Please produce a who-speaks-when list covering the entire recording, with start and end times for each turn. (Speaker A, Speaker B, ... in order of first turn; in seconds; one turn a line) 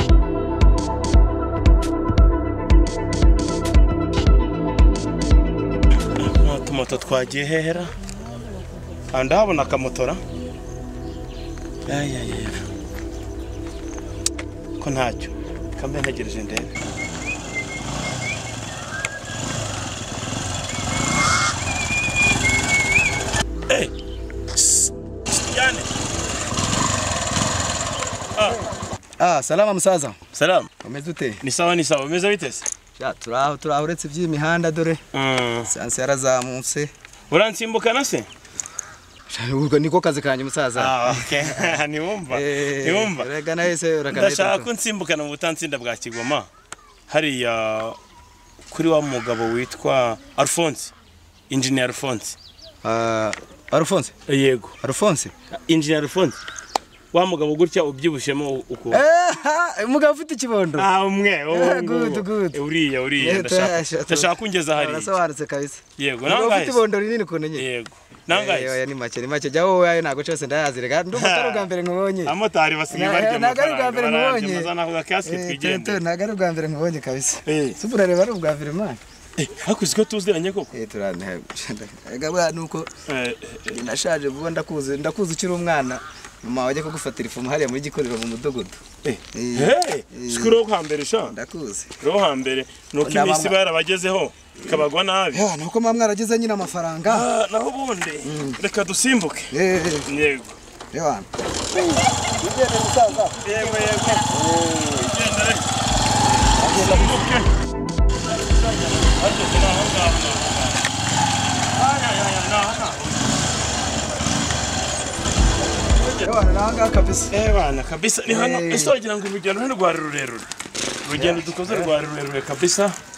Speaker A: 6.2-7.9
Speaker A: 9.1-10.2
Speaker A: 11.8-12.7
Speaker A: 14.8-16.7
Speaker A: 24.6-25.9
Speaker A: 28.4-28.6
Speaker B: 29.2-30.3
Speaker A: 30.3-30.7
Speaker B: 30.8-31.4
Speaker A: 31.4-32.7
Speaker B: 33.0-35.0
Speaker A: 35.1-35.7
Speaker B: 35.7-36.9
Speaker A: 37.3-38.3
Speaker B: 39.3-44.7
Speaker A: 40.7-43.3
Speaker A: 44.1-46.5
Speaker A: 47.1-48.0
Speaker A: 48.7-50.9
Speaker A: 51.5-52.4
Speaker B: 52.8-54.1
Speaker A: 54.3-54.7
Speaker B: 54.8-55.3
Speaker A: 55.5-56.4
Speaker A: 57.1-59.0
Speaker B: 58.9-60.9
Speaker A: 60.8-65.2
Speaker B: 61.5-62.6
Speaker B: 63.2-67.7
Speaker A: 66.0-66.8
Speaker A: 67.6-68.8
Speaker B: 68.3-72.3
Speaker A: 71.1-71.7
Speaker A: 72.2-76.0
Speaker B: 72.9-74.7
Speaker B: 75.2-79.0
Speaker A: 77.5-77.8
Speaker A: 79.4-80.7
Speaker B: 80.7-82.9
Speaker A: 83.1-83.8
Speaker B: 83.7-88.8
Speaker A: 89.0-91.3
Speaker B: 89.3-90.6
Speaker B: 91.2-91.9
Speaker A: 92.0-95.4
Speaker B: 93.0-93.6
Speaker B: 94.7-97.3
Speaker A: 97.0-99.5
Speaker B: 98.2-98.6
Speaker B: 99.5-100.1
Speaker A: 100.0-100.6
Speaker B: 100.9-103.5
Speaker A: 103.4-105.7
Speaker B: 104.2-105.2
Speaker B: 106.6-107.3
Speaker A: 106.6-107.5
Speaker A: 108.2-110.8
Speaker A: 111.7-113.5
Speaker A: 115.9-116.3
Speaker B: 116.1-117.3
Speaker A: 117.3-120.5
Speaker B: 118.3-119.0
Speaker A: 121.0-123.0
Speaker B: 121.1-121.9